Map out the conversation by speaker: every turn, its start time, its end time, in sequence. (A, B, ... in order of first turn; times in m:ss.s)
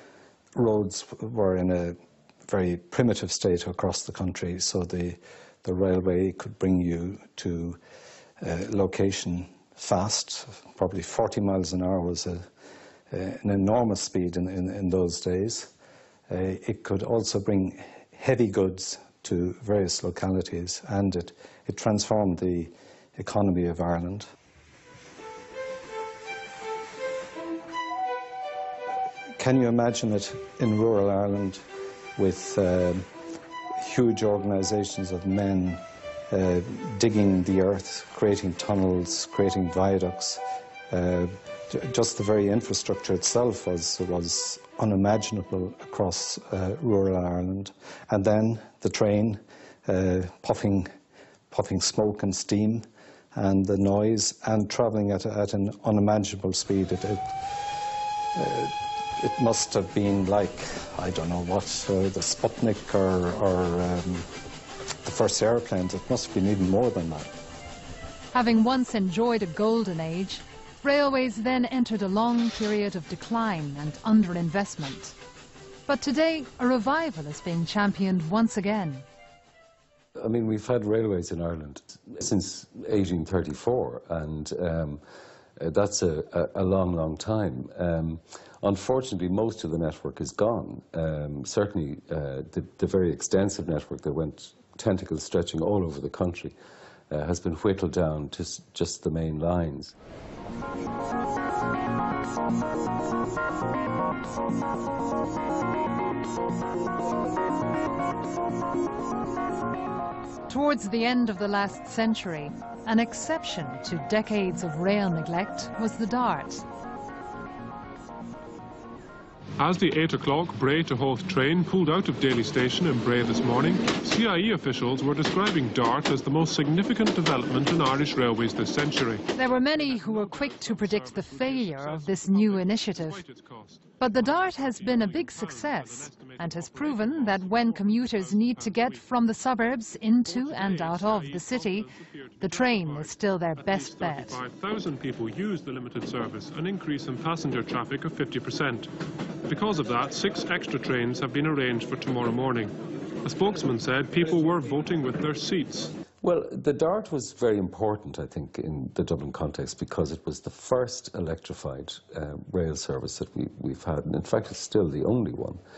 0:00.6-0:07.8 A
0:08.4-0:12.5 A
0:13.1-0:15.7 A
0:16.3-0:24.3 A
0:29.4-0:31.6 A
0:32.2-0:33.1 A
0:33.8-0:50.9 A
0:51.5-1:04.3 A
1:05.0-1:07.3 A
1:08.3-1:15.2 B
1:15.9-1:19.0 B
1:20.2-1:25.0 C
1:25.6-1:36.5 C
1:37.1-1:40.0 C
1:50.5-1:56.6 B
1:59.6-2:19.1 D
2:09.4-2:13.2 B
2:14.0-2:21.9 B
2:20.2-2:28.9 D
2:22.4-2:24.4 B
2:29.5-2:35.9 D
2:36.2-2:45.6 C